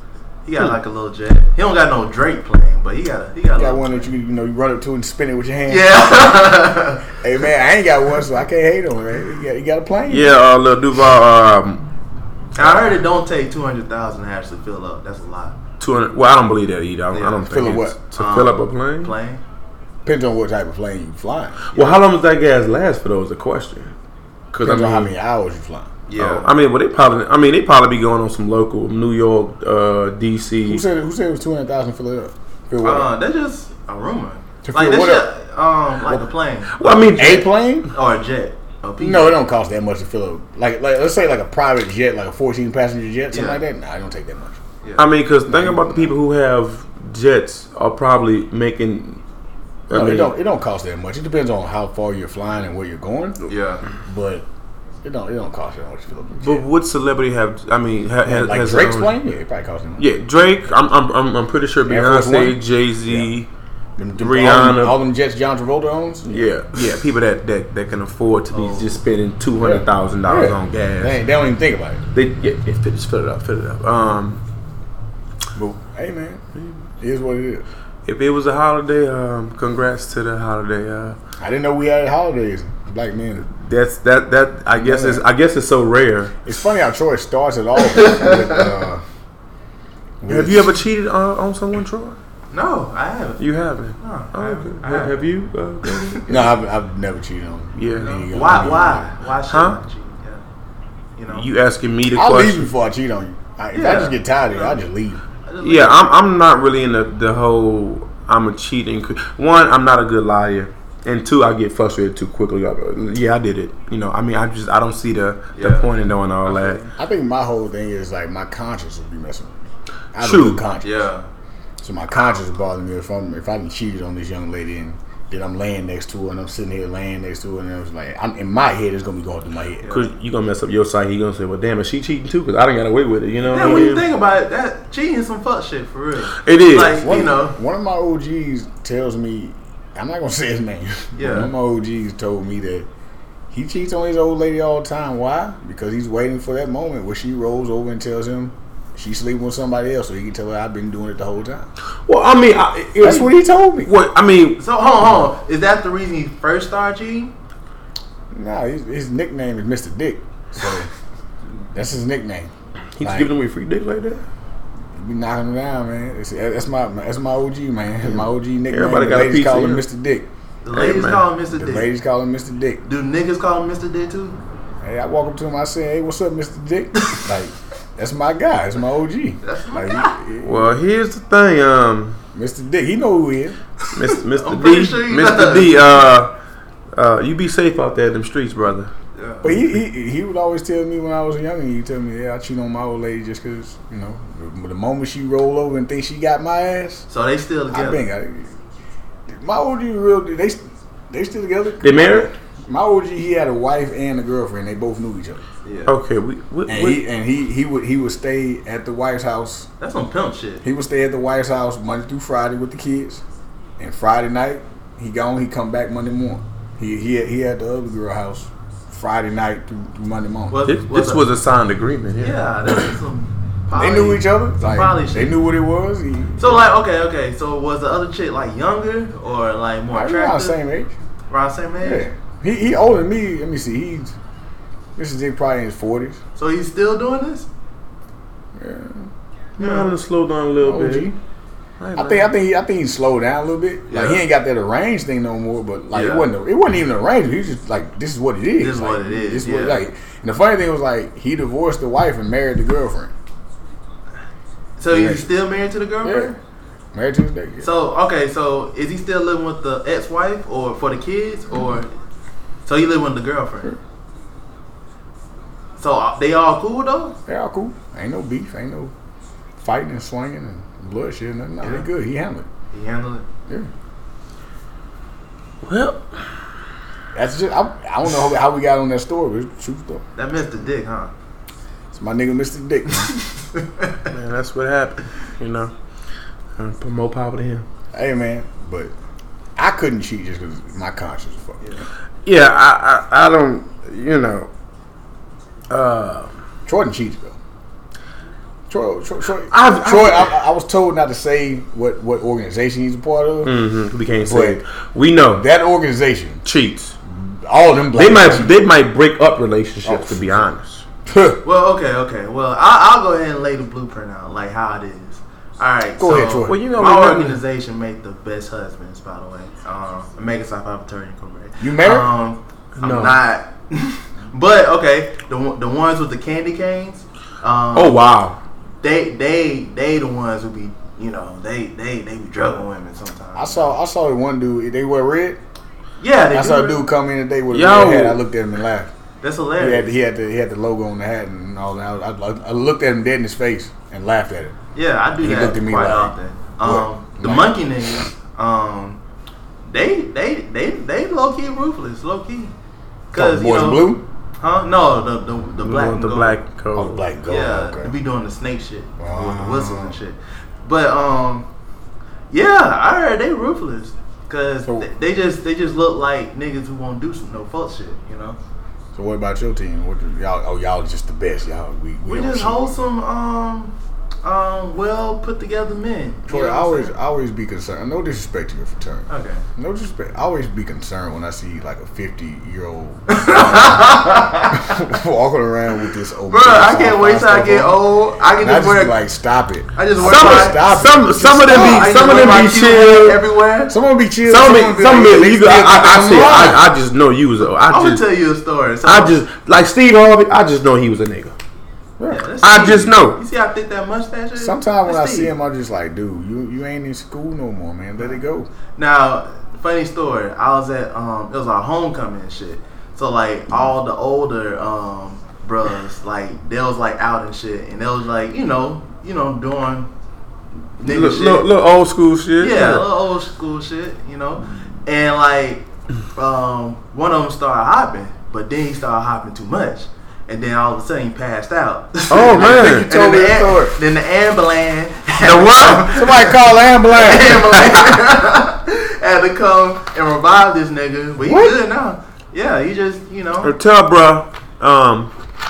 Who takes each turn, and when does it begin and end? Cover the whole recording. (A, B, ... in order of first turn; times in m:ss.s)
0:00.4-0:04.1 A
0:03.5-0:06.4 B
0:05.7-0:07.2 A
0:07.1-0:10.4 B
0:10.1-0:11.8 C
0:12.6-0:15.6 A
0:15.8-0:19.2 C
0:17.1-0:17.5 A
0:17.4-0:18.0 B
0:18.1-0:19.4 A
0:20.0-0:22.0 B
0:21.7-0:23.9 C
0:24.5-0:25.1 C
0:24.6-0:26.0 B
0:26.1-0:26.5 A
0:26.2-0:30.8 C
0:30.6-0:33.1 B
0:32.8-0:37.3 A
0:34.6-0:35.3 B
0:36.7-0:37.5 C
0:37.2-0:37.9 B
0:37.9-0:39.4 A
0:39.0-0:44.6 B
0:43.3-0:43.6 A
0:44.8-0:45.1 A
0:45.0-0:49.2 C
0:45.5-0:46.1 B
0:49.9-0:50.3 C
0:49.9-0:53.5 B
0:53.5-0:53.8 A
0:54.0-0:54.5 B
0:55.0-0:56.7 B
0:56.4-0:59.2 C
0:58.2-1:00.1 B
1:00.0-1:03.5 C
1:01.9-1:03.3 B
1:04.0-1:06.5 B
1:04.2-1:05.0 C
1:06.2-1:11.2 C
1:08.5-1:09.0 A
1:09.6-1:12.0 B
1:12.2-1:14.4 C
1:15.6-1:16.4 B
1:17.0-1:17.6 B
1:18.1-1:21.2 C
1:21.4-1:23.4 B
1:23.4-1:26.4 C
1:24.8-1:25.3 B
1:26.4-1:29.0 B
1:27.8-1:28.7 A
1:30.2-1:30.7 B
1:30.3-1:32.2 C
1:32.5-1:33.4 A
1:33.4-1:36.6 C
1:34.0-1:35.3 A
1:35.9-1:36.2 A
1:36.3-1:39.1 B
1:37.8-1:38.9 C
1:38.0-1:40.4 A
1:39.5-1:39.8 C
1:41.2-1:41.5 A
1:41.3-1:42.7 C
1:42.1-1:45.2 B
1:43.7-1:44.8 A
1:45.4-1:46.2 A
1:45.6-1:56.8 C
1:55.6-1:55.9 A
1:56.5-1:56.9 A
1:57.0-1:59.6 B
2:00.2-2:01.0 B
2:00.2-2:00.6 C
2:00.8-2:01.3 A
2:01.8-2:10.0 B
2:09.8-2:10.1 A
2:09.9-2:14.1 C
2:13.5-2:17.5 A
2:16.4-2:17.1 C
2:17.0-2:22.9 B
2:21.2-2:21.5 A
2:23.5-2:31.7 B
2:32.1-2:34.6 C
2:33.0-2:33.9 B
2:34.6-2:37.3 A
2:38.3-2:40.9 B
2:41.7-2:42.5 B
2:43.0-2:44.2 C
2:43.0-2:43.3 B
2:45.0-2:50.3 B
2:48.0-2:49.8 C
2:50.6-2:51.9 A
2:50.7-2:51.3 C
2:51.5-2:52.8 B
2:52.9-2:54.4 A
2:54.8-3:00.7 B
2:59.4-3:00.2 A
3:00.4-3:02.2 C
3:02.3-3:03.6 B
3:03.9-3:06.3 C
3:04.0-3:06.0 A
3:07.0-3:08.9 C
3:09.2-3:09.6 A
3:09.4-3:17.0 B
3:17.1-3:18.1 A
3:17.7-3:18.6 B
3:19.3-3:25.4 B
3:21.8-3:22.3 C
3:25.6-3:25.9 A
3:25.9-3:27.0 C
3:26.7-3:29.7 B
3:29.8-3:30.6 A
3:30.6-3:33.2 B
3:33.8-3:40.6 B
3:40.5-3:41.3 A
3:40.7-3:42.9 C
3:42.2-3:45.4 A
3:43.8-3:46.6 B
3:46.4-3:50.6 A
3:49.9-3:50.9 B
3:51.3-3:52.1 A
3:51.8-3:54.2 B
3:55.0-3:56.2 B
3:56.4-3:57.5 A
3:58.6-3:59.1 B
3:59.6-3:59.9 A
3:59.6-4:01.1 C
4:00.6-4:01.2 B
4:01.8-4:02.3 C
4:02.0-4:13.1 B
4:03.9-4:04.2 A
4:05.9-4:06.3 A
4:08.6-4:09.8 A
4:14.8-4:16.4 A
4:14.9-4:15.3 B
4:16.0-4:16.3 B
4:16.9-4:17.7 B
4:17.6-4:21.9 A
4:22.6-4:23.8 A
4:25.8-4:27.2 A
4:27.3-4:28.9 B
4:29.6-4:32.5 B
4:31.6-4:31.9 A
4:32.7-4:33.2 A
4:35.6-4:36.2 C
4:37.1-4:40.0 B
4:40.2-4:41.1 A
4:41.9-4:43.1 B
4:43.1-4:44.0 A
4:44.1-4:45.7 C
4:46.6-4:47.7 C
4:47.9-4:48.9 B
4:49.6-4:51.8 B
4:52.3-4:54.5 C
4:55.7-4:56.3 C
4:56.7-4:57.4 B
4:58.7-5:03.6 B
4:59.5-5:00.4 C
5:03.4-5:05.4 C
5:04.2-5:04.6 B
5:05.3-5:06.4 B
5:06.4-5:07.0 C
5:07.1-5:08.6 B
5:07.9-5:10.8 C
5:09.8-5:10.5 B
5:11.1-5:11.4 B
5:11.4-5:28.0 A
5:16.0-5:16.6 B
5:16.5-5:17.4 C
5:21.6-5:22.1 B
5:22.8-5:23.2 C
5:27.8-5:28.4 C
5:28.8-5:33.8 A
5:33.4-5:35.4 B
5:36.0-5:36.9 A
5:36.3-5:38.9 B
5:37.5-5:38.2 C
5:39.2-5:39.9 A
5:39.6-5:44.6 B
5:44.7-5:49.0 A
5:45.2-5:47.7 B
5:49.6-5:52.5 A
5:53.1-5:56.4 A
5:53.1-5:54.0 B
5:55.6-5:57.0 C
5:56.7-5:58.0 B
5:57.3-6:01.5 A
5:59.0-6:00.0 B
6:02.3-6:08.4 A
6:08.9-6:12.7 B
6:12.1-6:16.9 A
6:16.3-6:27.8 B
6:19.1-6:19.4 A
6:23.1-6:24.8 A
6:26.3-6:29.0 A
6:28.4-6:32.0 B
6:29.8-6:30.6 A
6:30.0-6:33.2 C
6:31.5-6:33.8 A
6:33.7-6:36.7 B
6:34.2-6:38.0 C
6:37.7-6:39.2 A
6:38.8-6:41.4 C
6:42.0-6:42.2 B
6:42.1-6:45.3 A
6:42.4-6:43.2 C
6:44.4-6:48.5 B
6:48.8-6:59.9 A
7:00.8-7:01.5 A
7:00.8-7:02.9 C
7:02.4-7:23.5 A
7:12.1-7:12.9 C
7:12.3-7:13.8 B
7:15.2-7:16.0 C
7:15.9-7:17.5 B
7:17.5-7:18.0 C
7:21.2-7:21.5 B
7:23.4-7:25.1 C